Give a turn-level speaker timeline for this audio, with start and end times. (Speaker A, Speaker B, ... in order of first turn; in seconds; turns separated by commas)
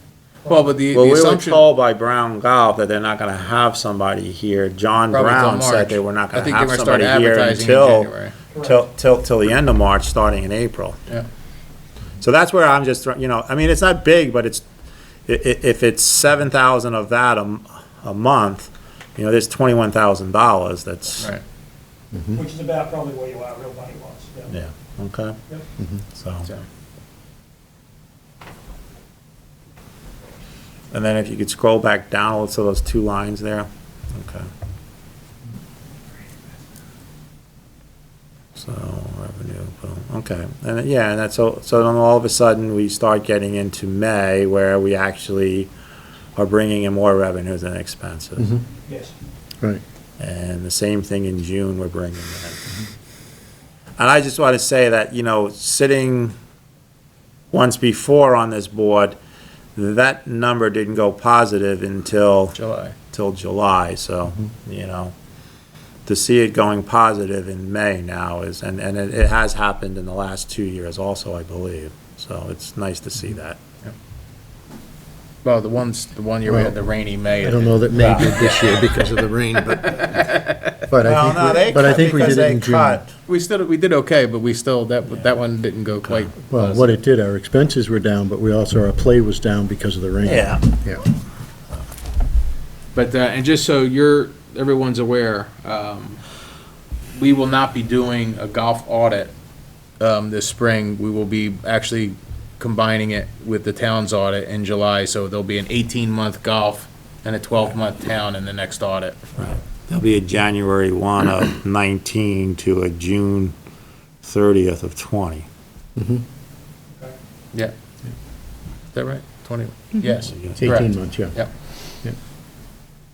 Speaker A: 0.5-1.6, Speaker B: 0.9-8.1, Speaker A: 5.1-8.3, Speaker C: 8.5-8.8, Speaker B: 8.6-11.0, Speaker B: 12.2-14.6, Speaker B: 15.3-21.3, Speaker D: 22.1-22.4, Speaker C: 22.3-24.5, Speaker B: 24.5-25.4, Speaker B: 26.1-26.5, Speaker B: 30.9-34.5, Speaker B: 38.5-45.7, Speaker B: 46.4-48.5, Speaker C: 48.9-49.1, Speaker B: 50.2-52.6, Speaker B: 54.0-56.3, Speaker B: 57.5-59.2, Speaker B: 59.8-62.5, Speaker A: 62.5-62.9, Speaker B: 63.1-65.1, Speaker B: 66.0-73.6, Speaker A: 75.4-80.8, Speaker D: 76.5-76.8, Speaker D: 77.3-80.3, Speaker D: 80.9-83.0, Speaker B: 81.0-83.1, Speaker A: 83.3-87.0, Speaker B: 86.0-86.3, Speaker D: 86.5-91.0, Speaker B: 90.2-90.7, Speaker A: 92.9-96.2, Speaker A: 97.1-99.3, Speaker A: 100.0-109.3, Speaker B: 109.4-113.5, Speaker B: 114.2-115.5, Speaker D: 116.0-116.2, Speaker A: 118.9-121.5, Speaker B: 120.3-120.7, Speaker D: 120.6-121.4